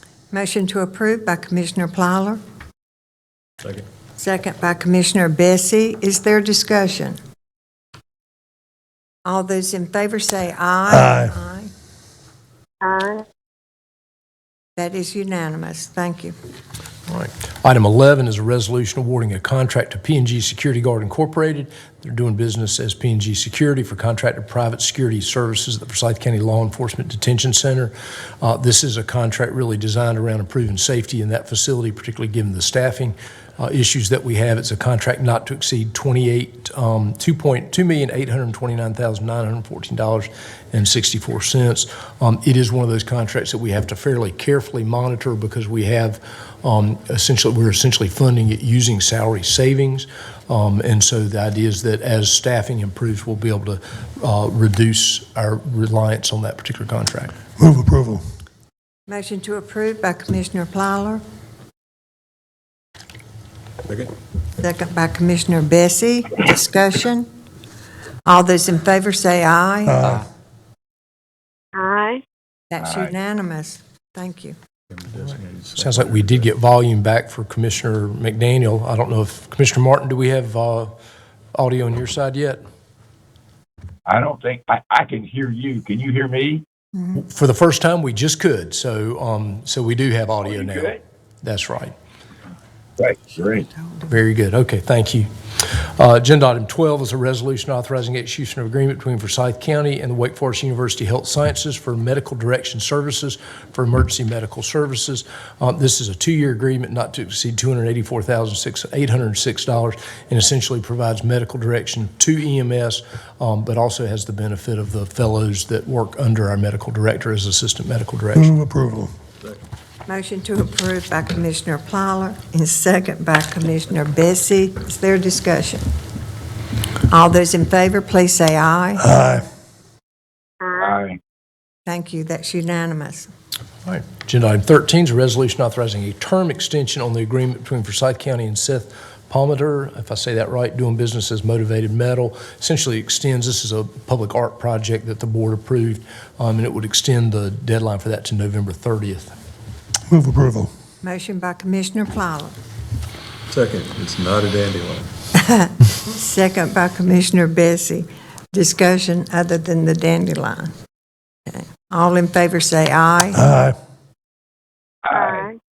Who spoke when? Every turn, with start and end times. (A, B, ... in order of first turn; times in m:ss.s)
0:00.3-0:02.4 A
0:04.2-0:07.2 A
0:09.2-0:11.7 A
0:10.9-0:11.4 B
0:12.8-0:13.2 A
0:14.8-0:16.3 A
0:17.1-0:57.3 C
0:57.6-0:58.2 B
0:59.1-1:01.2 A
1:04.6-1:07.3 A
1:08.2-1:10.0 A
1:09.8-1:10.2 B
1:11.8-1:12.2 A
1:12.7-1:14.5 A
1:12.8-1:13.1 D
1:15.1-1:16.0 E
1:15.7-1:20.9 C
1:21.5-1:22.6 C
1:24.0-1:26.6 D
1:27.2-1:31.9 C
1:30.4-1:31.0 D
1:33.0-1:33.7 D
1:34.0-1:58.5 C
1:58.3-1:59.1 B
2:00.1-2:05.8 A
2:07.1-2:09.0 A
2:09.0-2:09.5 B
2:10.8-2:11.2 D
2:11.9-2:13.3 A
2:13.8-2:29.3 C
2:30.1-2:30.7 B
2:31.0-2:32.6 A
2:33.5-2:35.1 E
2:35.4-2:40.7 A
2:41.5-2:43.4 A
2:43.3-2:43.8 B
2:45.0-2:45.5 D
2:45.1-2:45.6 A